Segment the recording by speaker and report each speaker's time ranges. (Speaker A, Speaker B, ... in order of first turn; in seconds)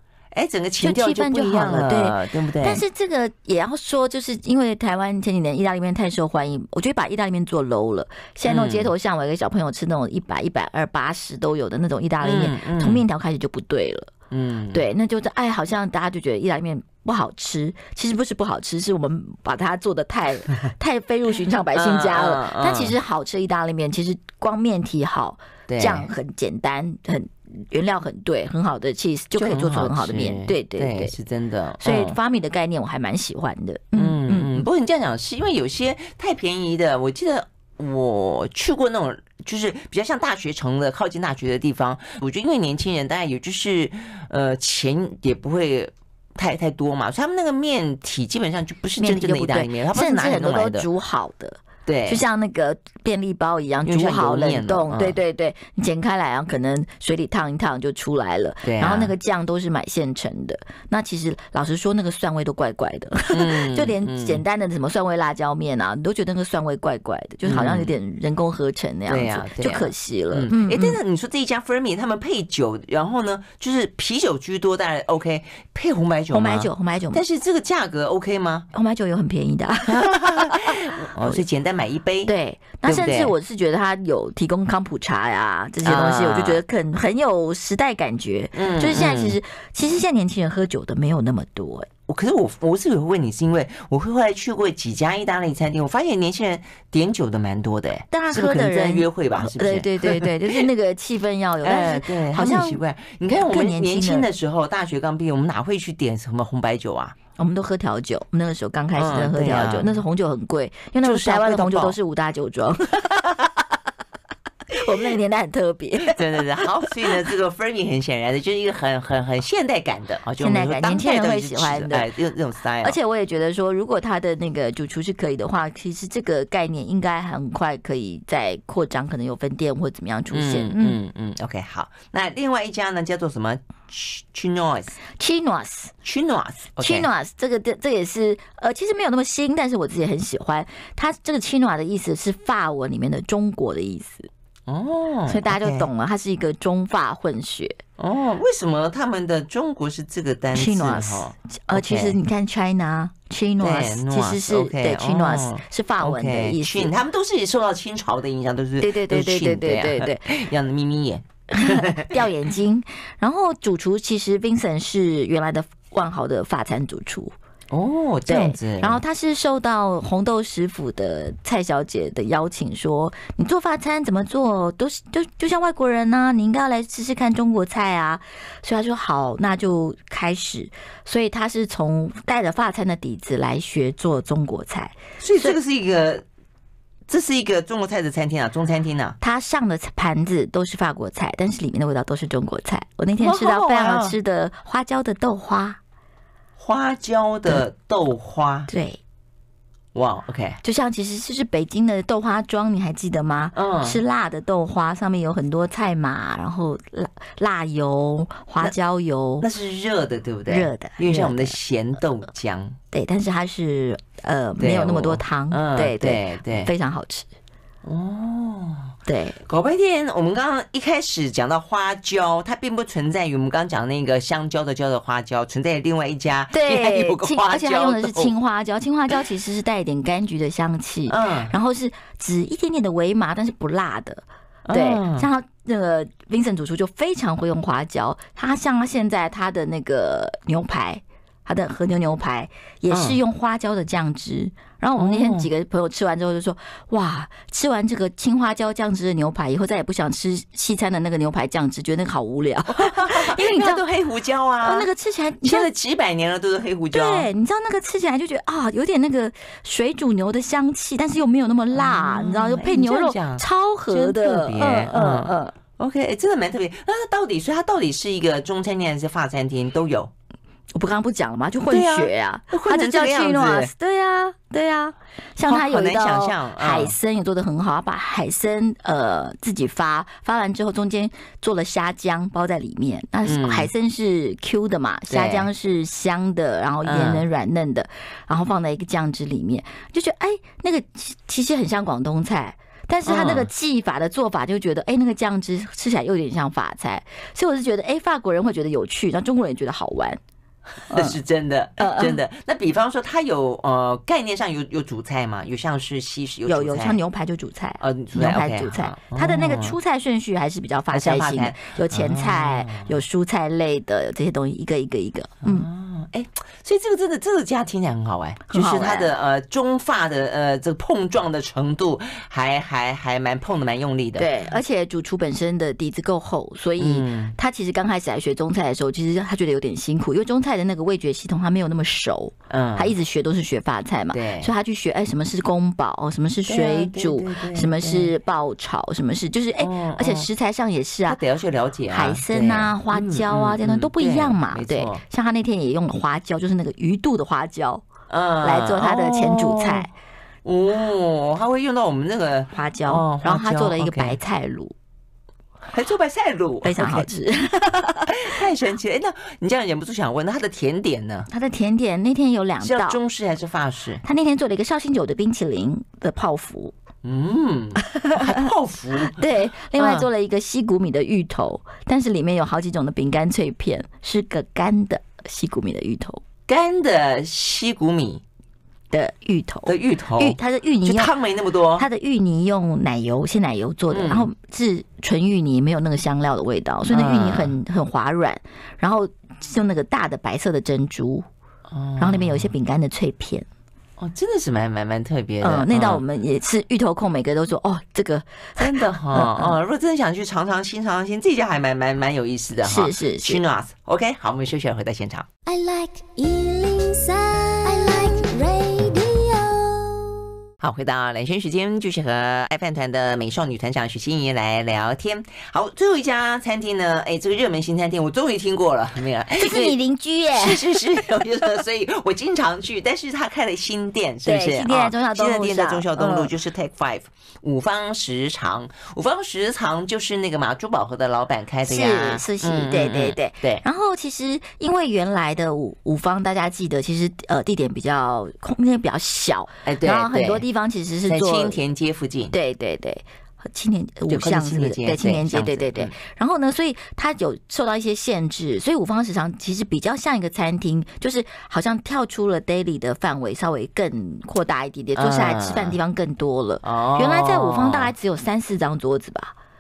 Speaker A: 0.3-2.8, 8.4-8.9, 12.2-13.0, 14.3-14.8, 21.7-23.0, 25.7-26.1, 29.4-32.2, 34.0-50.9, 51.9-52.2, 53.9-55.2, 58.6-59.1, 63.3-64.4, 67.4-67.9, 69.1-78.7, 79.9-82.3, 82.8-83.3, 85.8-86.6, 88.5-89.4, 92.1-100.7, 101.6-107.2, 109.0-110.0, 111.0-112.0, 116.0-123.0, 130.3-135.0, 136.0-137.1, 144.7-145.9, 148.0-152.2, 153.6-162.2, 167.7-169.0, 185.2-186.2, 187.1-189.2, 193.2-194.2, 196.6-198.7, 199.9-200.6, 203.5-204.0, 209.4-212.8, 214.6-216.7, 217.8-228.3, 231.1-231.5, 234.7-235.3, 242.9-243.2, 245.0-245.5, 252.7-254.9, 255.4-257.3, 261.7-270.1, 271.7-273.7, 275.5-276.9, 283.2-283.7, 285.1-285.5, 286.8-287.2, 293.1-293.5, 300.9-307.0, 307.8-309.8, 310.9-313.0, 315.4-324.3, 326.8-327.4, 332.5-332.9, 334.1-334.5, 336.5-338.1, 339.6-340.3, 341.1-345.0, 348.1-349.9, 350.4-354.2, 355.6-357.1, 358.1-361.3, 362.6-364.0, 367.0-370.1, 376.5-378.2, 379.7-381.9, 383.9-384.3, 386.9-387.5, 391.7-392.5, 394.0-396.0, 398.6-405.3, 410.6-419.8, 420.4-433.6, 439.6-440.4, 441.1-442.4, 444.1-445.9, 454.9-455.8, 456.6-457.9
Speaker B: 0.8-14.1, 14.7-31.1, 31.8-34.7, 49.0-71.0, 76.3-77.2, 78.7-81.4, 82.3-91.9, 98.1-104.3, 107.4-113.3, 114.7-117.1, 120.4-122.1, 122.8-131.0, 135.2-135.9, 136.8-144.3, 145.3-147.8, 150.5-156.9, 158.8-160.4, 161.5-167.3, 168.3-185.6, 189.2-195.8, 198.7-199.0, 200.6-209.5, 210.5-211.6, 212.9-217.3, 219.1-219.4, 226.5-253.8, 254.6-255.7, 256.9-265.6, 270.7-300.2, 300.9-301.2, 301.8-302.2, 306.5-315.7, 318.5-319.1, 324.2-341.2, 341.9-347.9, 348.4-349.9, 352.5-354.7, 356.6-358.4, 361.3-363.0, 364.0-366.7, 367.8-368.5, 369.1-376.2, 378.9-381.1, 381.8-391.3, 392.0-393.5, 395.4-399.6, 402.6-403.4, 419.4-420.8, 424.3-426.3, 431.6-441.6, 442.3-459.4
Speaker C: 405.5-410.2